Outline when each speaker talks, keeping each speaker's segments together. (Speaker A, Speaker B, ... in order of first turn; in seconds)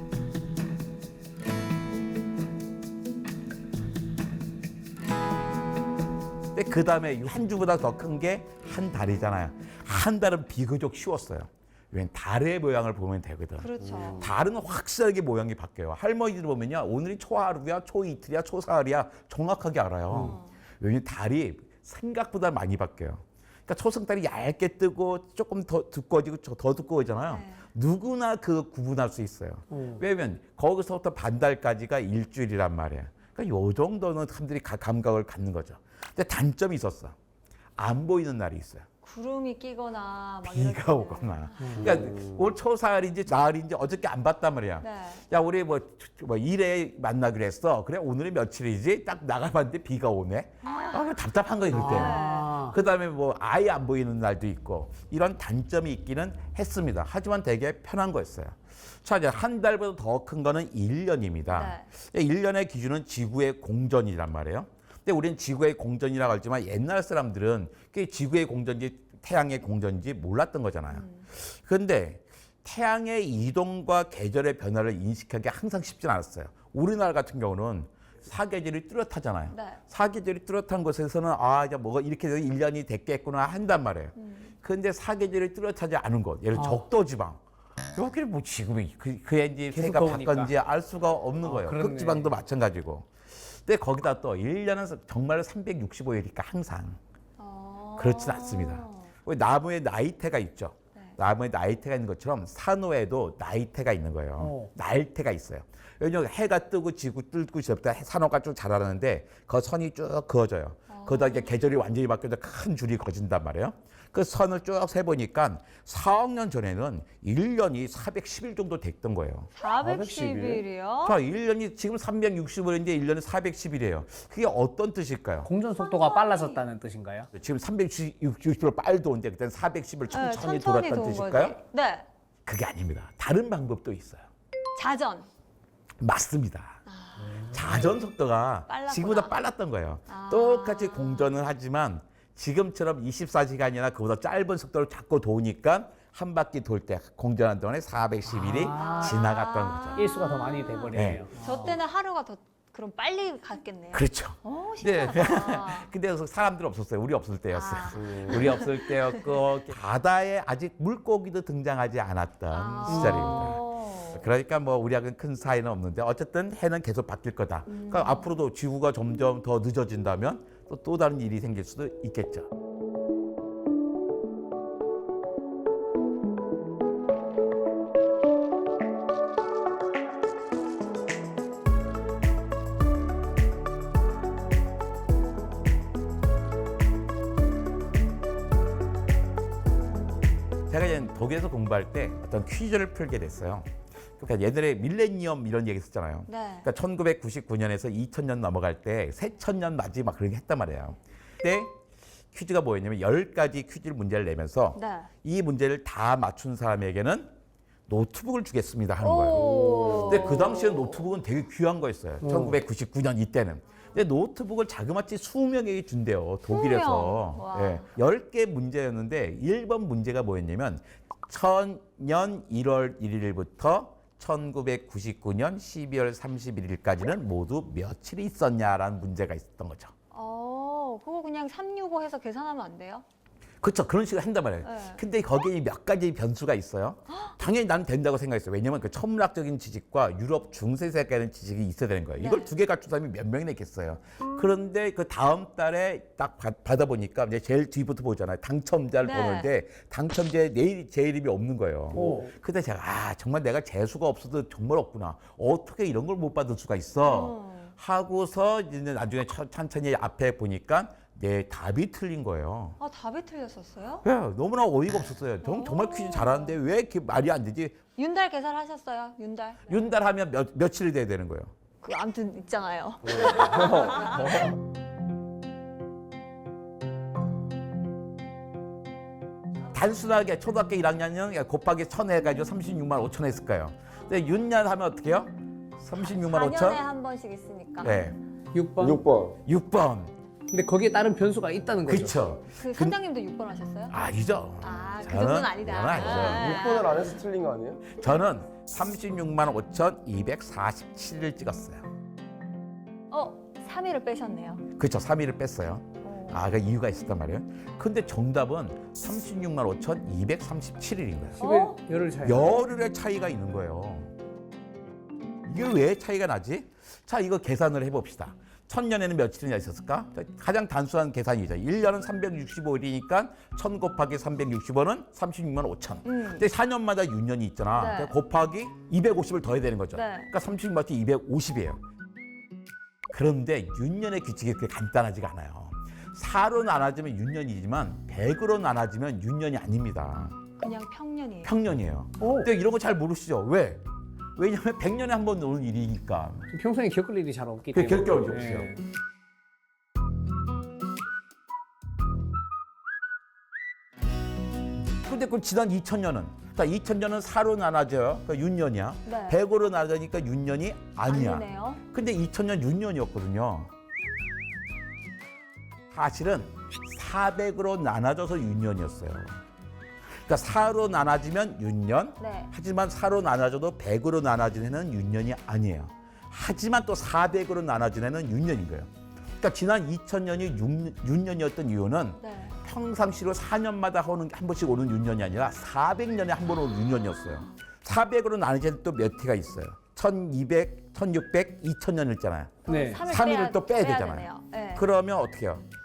Speaker A: 6.5-37.1, 37.8-38.9, 40.5-87.4, 87.9-97.0, 98.0-119.5, 121.0-125.5, 127.3-131.6, 132.4-134.3, 136.0-136.8, 137.5-150.0, 150.9-151.2, 153.9-172.5, 190.7-201.8, 202.3-207.3, 207.9-229.9, 233.6-262.8, 264.0-267.8, 269.7-271.5, 279.7-286.8, 287.8-288.1, 289.4-290.1, 291.9-292.9, 293.9-296.6, 297.9-301.8, 304.8-311.4, 312.2-314.1, 315.4-331.8, 333.1-340.4, 341.4-343.8, 344.4-346.4, 347.7-348.7, 355.0-363.7, 365.9-369.4, 370.2-395.6
Speaker B: 13.6-14.3, 20.1-20.5, 27.3-27.6, 39.0-41.8, 44.8-45.2, 50.6-51.0, 51.8-52.6, 61.5-61.9, 70.9-71.2, 79.5-79.8, 84.2-84.5, 97.4-99.1, 110.9-111.5, 119.5-121.2, 125.8-126.6, 130.1-132.1, 134.7-135.3, 136.9-137.5, 138.7-139.3, 140.1-141.3, 148.6-155.9, 157.5-159.2, 162.5-164.2, 167.7-168.2, 196.3-196.7, 204.7-205.1, 209.0-210.8, 216.5-217.9, 230.1-233.0, 234.6-235.0, 242.2-242.5, 249.0-249.5, 257.0-257.7, 262.8-264.0, 265.4-266.6, 268.0-269.7, 271.8-274.5, 285.9-288.0, 292.5-294.0, 294.6-297.2, 303.1-304.6, 306.0-306.4, 311.4-311.8, 326.0-326.4, 327.7-328.1, 329.9-330.3, 340.6-341.5, 359.1-359.4, 361.1-361.8, 372.2-372.5, 382.2-382.6, 392.6-394.8
Speaker C: 20.1-20.4, 29.7-30.0, 51.7-52.8, 86.5-86.8, 89.7-90.5, 91.4-92.3, 104.4-104.7, 125.4-127.3, 137.4-137.8, 148.2-149.2, 149.9-151.7, 162.8-163.5, 212.2-212.6, 251.9-252.3, 288.5-289.0, 290.5-292.2, 311.4-312.6, 342.2-342.5, 346.5-348.8, 392.6-393.0
Speaker D: 42.0-42.2, 119.8-120.6, 158.0-158.4, 209.3-210.5, 273.1-274.0, 288.8-289.4, 296.0-297.8